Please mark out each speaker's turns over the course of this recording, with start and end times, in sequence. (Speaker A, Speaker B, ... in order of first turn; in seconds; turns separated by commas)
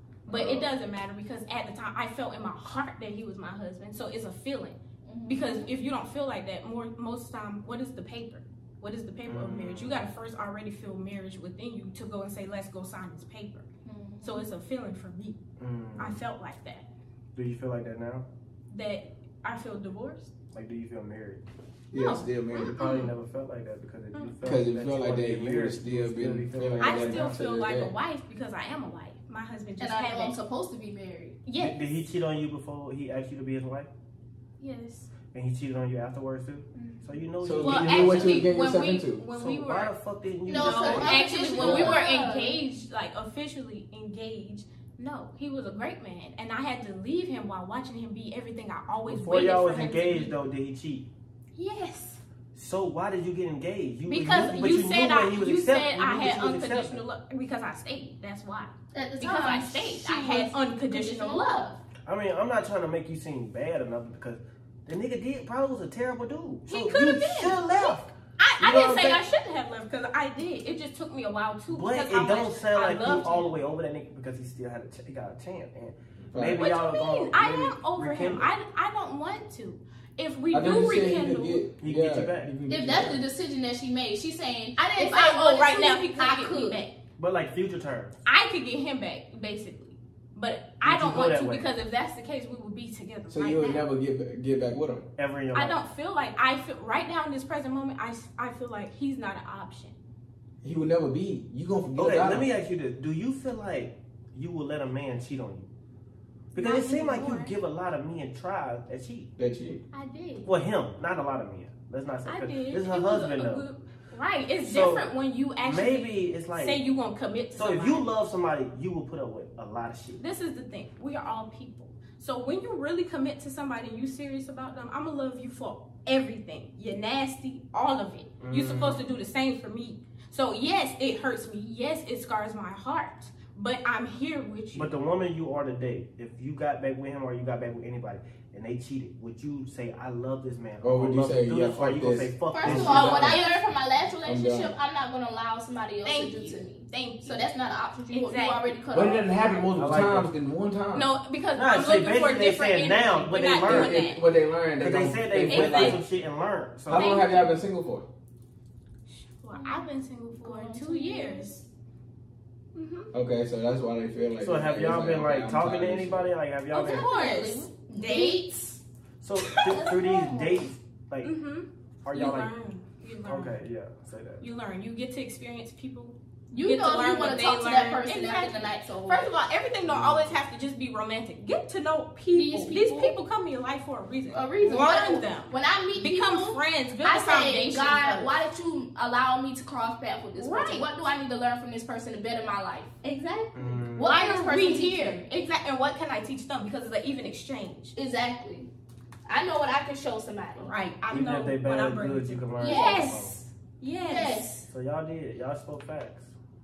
Speaker A: 0.2-0.7, Speaker B: 0.3-13.7, Speaker C: 5.0-5.7, Speaker A: 9.3-10.1, Speaker C: 13.8-14.5, Speaker B: 14.2-15.4, Speaker A: 15.6-16.2, Speaker B: 16.0-16.9, Speaker A: 17.3-18.2, Speaker B: 18.7-20.3, Speaker A: 20.5-21.4, Speaker D: 21.9-22.8, Speaker B: 21.9-23.1, Speaker A: 22.7-27.3, Speaker D: 24.4-27.9, Speaker B: 26.8-30.4, Speaker C: 29.8-31.4, Speaker B: 31.4-31.7, Speaker A: 31.6-33.9, Speaker B: 34.6-35.1, Speaker A: 35.3-38.5, Speaker B: 36.7-37.0, Speaker D: 37.4-39.2, Speaker B: 37.6-39.9, Speaker C: 37.7-38.2, Speaker A: 39.3-42.0, Speaker C: 40.5-42.6, Speaker B: 40.5-50.4, Speaker A: 49.1-51.1, Speaker B: 51.5-52.2, Speaker A: 52.5-57.0, Speaker B: 54.1-61.6, Speaker C: 58.9-61.8, Speaker A: 62.0-69.2, Speaker B: 66.7-73.5, Speaker A: 71.7-78.5, Speaker D: 76.2-76.6, Speaker B: 76.6-81.6, Speaker D: 80.5-83.2, Speaker A: 81.8-82.5, Speaker C: 82.7-86.8, Speaker B: 84.9-86.9, Speaker A: 87.2-88.1, Speaker B: 88.2-93.9, Speaker A: 90.8-91.7, Speaker D: 93.3-95.0, Speaker A: 95.2-95.8, Speaker B: 95.5-100.0, Speaker D: 100.6-102.5, Speaker A: 101.9-105.7, Speaker A: 106.5-109.3, Speaker B: 106.5-107.5, Speaker D: 109.4-109.8, Speaker B: 109.9-110.5, Speaker A: 110.4-113.6, Speaker B: 112.2-118.0, Speaker A: 114.6-115.1, Speaker A: 115.6-116.8, Speaker A: 117.5-120.2, Speaker B: 120.2-134.9, Speaker A: 128.4-129.0, Speaker A: 134.7-143.4, Speaker D: 140.8-143.4, Speaker C: 142.5-146.7, Speaker B: 143.2-143.6, Speaker D: 144.2-144.7, Speaker B: 146.0-147.4, Speaker C: 147.2-149.7, Speaker B: 148.1-148.7, Speaker D: 148.9-151.1, Speaker A: 149.8-150.3, Speaker B: 150.9-154.2, Speaker A: 151.6-154.0, Speaker D: 153.6-156.0, Speaker A: 154.8-157.1, Speaker B: 155.5-156.0, Speaker D: 156.9-158.1, Speaker B: 156.9-157.5, Speaker B: 159.1-161.6, Speaker C: 159.5-159.9, Speaker C: 160.4-161.6, Speaker B: 162.7-163.1, Speaker D: 163.1-166.3, Speaker A: 164.4-167.1, Speaker B: 166.7-168.4, Speaker C: 166.9-168.8, Speaker A: 169.2-171.3, Speaker B: 169.4-169.8, Speaker C: 169.6-170.7, Speaker B: 171.2-173.6, Speaker A: 172.0-172.5, Speaker A: 173.3-174.4, Speaker B: 174.4-188.4, Speaker C: 176.5-179.3, Speaker A: 179.9-180.3, Speaker C: 182.3-183.1, Speaker C: 184.3-195.2, Speaker B: 190.4-190.9, Speaker B: 193.0-193.4, Speaker A: 193.5-194.1, Speaker B: 194.0-197.9, Speaker C: 197.9-198.7, Speaker C: 199.2-200.8, Speaker B: 200.6-204.5, Speaker A: 201.1-203.4, Speaker C: 202.6-203.1, Speaker C: 204.0-204.7, Speaker A: 204.7-206.3